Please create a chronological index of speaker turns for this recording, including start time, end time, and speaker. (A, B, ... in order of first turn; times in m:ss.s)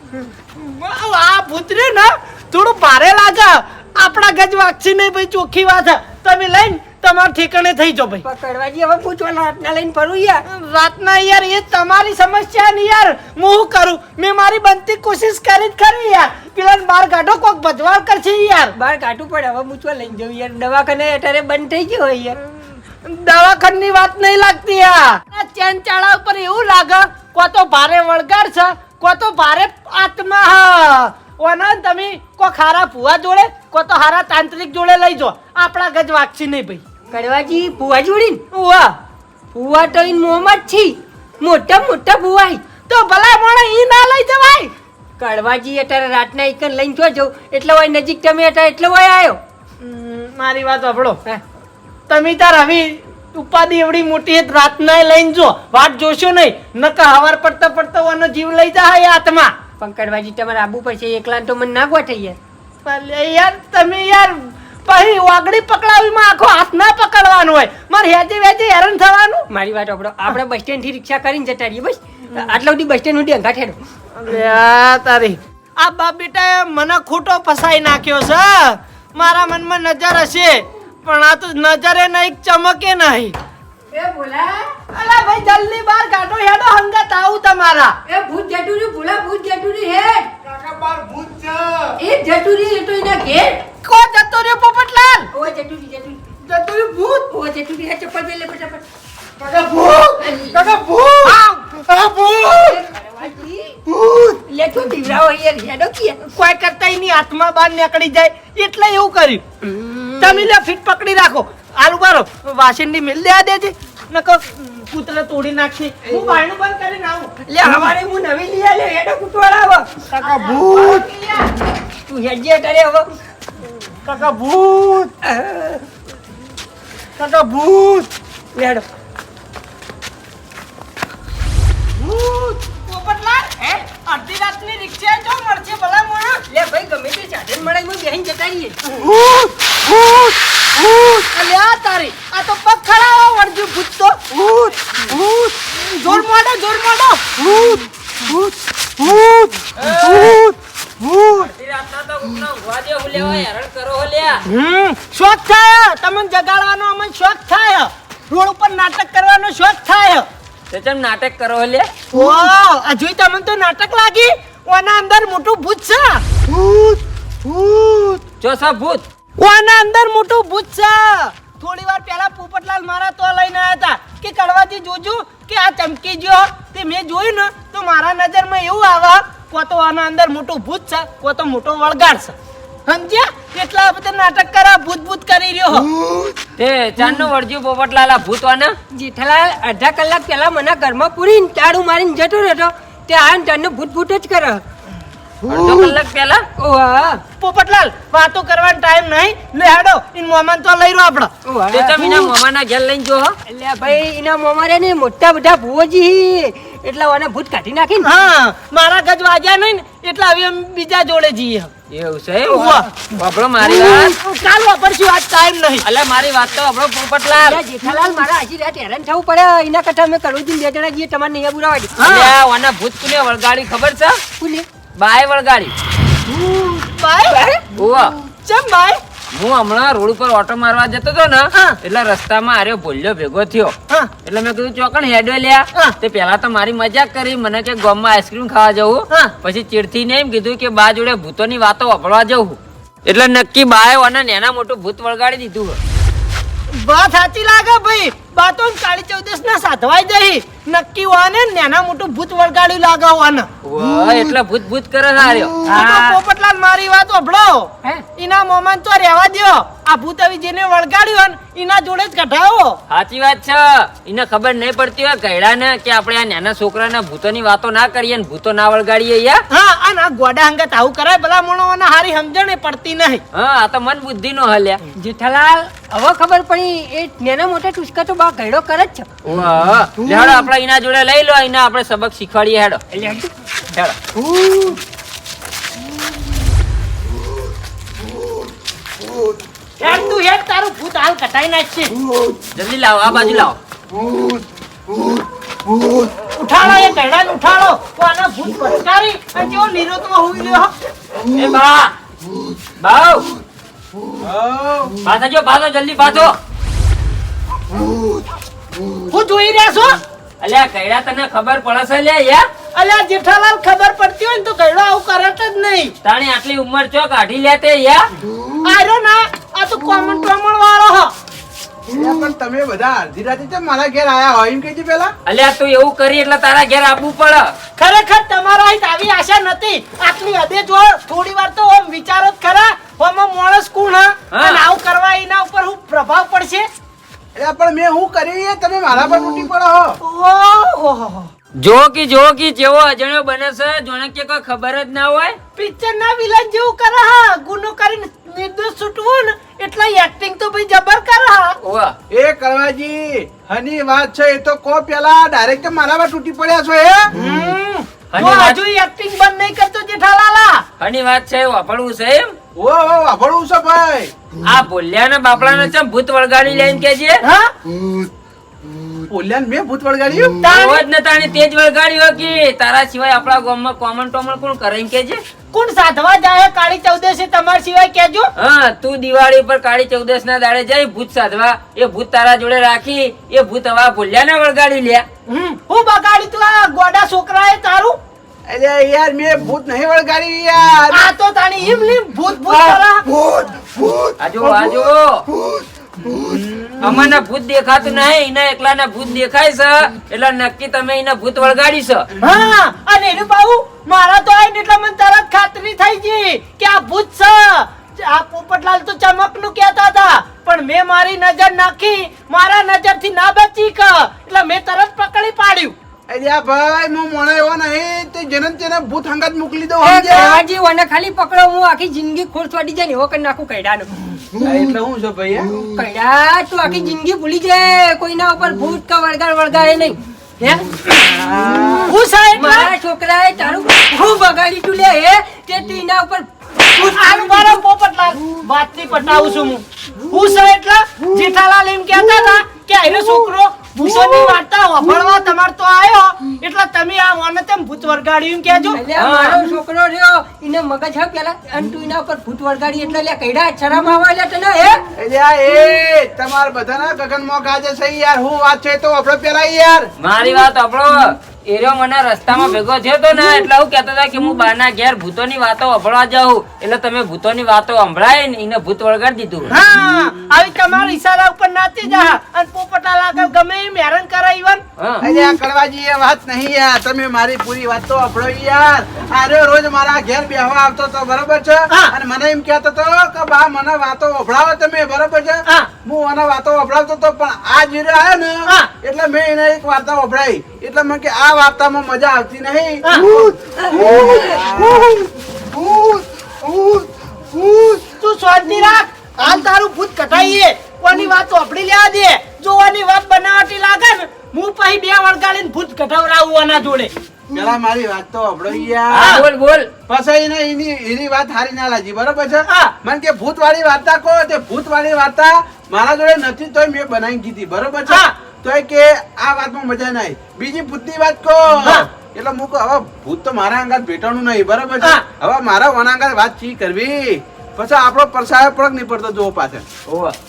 0:00.5-0:08.2 A
0:08.2-0:10.4 B
0:10.5-0:18.7 A
0:18.8-0:22.4 B
0:23.0-0:36.8 A
0:37.1-0:38.4 B
0:38.5-0:39.0 A
0:39.5-0:42.6 B
0:42.9-0:44.7 A
0:45.2-0:49.4 B
0:49.8-0:51.2 A
0:52.1-0:59.6 A
0:59.8-1:02.4 B
1:02.8-1:09.5 A
1:09.5-1:13.8 B
1:14.2-1:23.4 A
1:23.9-1:24.7 B
1:24.9-1:28.0 A
1:28.1-1:30.3 B
1:30.4-1:32.0 C
1:32.0-1:33.7 B
1:33.8-1:35.3 A
1:35.3-1:36.2 B
1:36.5-1:37.3 A
1:37.3-1:38.8 B
1:39.4-1:41.4 C
1:40.2-1:40.6 B
1:41.2-1:42.2 A
1:42.0-1:42.8 C
1:42.5-1:43.8 B
1:43.9-1:44.3 C
1:44.5-1:46.3 B
1:46.4-1:49.4 A
1:49.6-1:50.5 B
1:50.2-1:57.4 A
1:56.1-1:56.4 B
1:57.5-2:00.1 B
2:00.2-2:01.5 A
2:00.2-2:01.0 C
2:02.1-2:03.1 B
2:04.0-2:05.1 C
2:05.2-2:05.9 B
2:07.2-2:08.1 C
2:08.6-2:08.8 B
2:12.0-2:16.4 A
2:16.5-2:18.8 B
2:21.2-2:24.2 A
2:24.7-2:25.5 C
2:25.7-2:27.5 A
2:27.5-2:27.8 C
2:29.0-2:29.5 C
2:29.8-2:30.4 D
2:30.3-2:30.5 C
2:31.3-2:34.4 D
2:34.5-2:40.3 A
2:40.7-2:41.9 D
2:42.1-2:46.2 A
2:46.6-2:48.2 C
2:48.4-2:49.0 D
2:49.4-3:02.4 A
3:02.9-3:05.9 A
3:06.6-3:08.8 D
3:08.9-3:14.6 B
3:15.4-3:16.4 D
3:16.6-3:17.2 B
3:17.4-3:21.3 A
3:21.4-3:22.3 B
3:21.7-3:23.4 D
3:23.5-3:28.1 B
3:28.0-3:31.7 A
3:31.9-3:34.2 D
3:32.5-3:32.9 A
3:33.6-3:35.8 A
3:35.8-3:37.6 D
3:37.4-3:42.0 B
3:42.0-3:42.3 A
3:42.0-3:44.2 D
3:44.4-3:44.7 B
3:45.0-3:45.7 D
3:46.8-3:47.4 A
3:47.3-3:47.6 B
3:47.8-3:48.2 D
3:48.4-3:49.0 A
3:49.3-3:53.8 D
3:54.3-4:05.8 D
4:06.7-4:13.5 A
4:13.6-4:15.6 D
4:15.7-4:22.8 A
4:15.7-4:16.2 B
4:22.9-4:29.4 D
4:29.5-4:33.2 A
4:33.3-4:34.8 D
4:35.0-4:39.1 B
4:39.2-4:42.8 D
4:42.9-4:43.3 B
4:43.7-4:44.0 D
4:49.8-4:52.0 A
4:52.6-4:53.6 D
4:56.4-5:00.7 A
5:01.3-5:01.9 D
5:02.8-5:03.3 D
5:04.2-5:05.0 E
5:05.0-5:06.4 D
5:09.1-5:10.0 A
5:10.4-5:12.4 D
5:12.8-5:15.9 A
5:16.0-5:18.1 D
5:18.6-5:21.1 A
5:21.9-5:25.1 E
5:25.3-5:27.5 D
5:27.8-5:36.7 A
5:34.3-5:34.6 D
5:37.4-5:40.0 E
5:40.0-5:41.3 A
5:41.6-5:45.4 D
5:45.6-5:51.6 A
5:51.6-5:52.0 D
5:52.1-5:57.2 E
5:57.2-6:00.6 A
5:58.1-5:58.6 D
6:00.8-6:02.4 D
6:02.6-6:04.1 E
6:04.5-6:07.2 D
6:07.2-6:07.5 A
6:09.1-6:10.4 E
6:10.4-6:10.8 A
6:10.4-6:15.2 D
6:15.5-6:18.3 A
6:18.4-6:25.1 D
6:25.3-6:28.0 A
6:28.5-6:31.1 E
6:30.9-6:33.1 A
6:34.2-6:35.3 D
6:36.2-6:37.0 E
6:36.8-6:42.1 D
6:42.2-6:55.8 A
6:56.1-7:00.4 E
6:59.8-7:03.9 B
7:04.4-7:05.5 E
7:05.6-7:10.6 B
7:11.4-7:11.9 E
7:11.4-7:11.7 B
7:11.8-7:12.7 A
7:12.3-7:17.6 B
7:16.8-7:28.8 A
7:28.7-7:34.8 B
7:29.0-7:29.4 D
7:35.0-7:39.9 E
7:40.0-7:49.5 D
7:49.5-7:55.1 A
7:54.8-7:55.0 D
7:55.0-8:15.0 E
8:17.9-8:26.9 A
8:27.3-8:29.3 E
8:28.9-8:29.7 D
8:29.0-8:29.2 A
8:29.9-8:49.9 E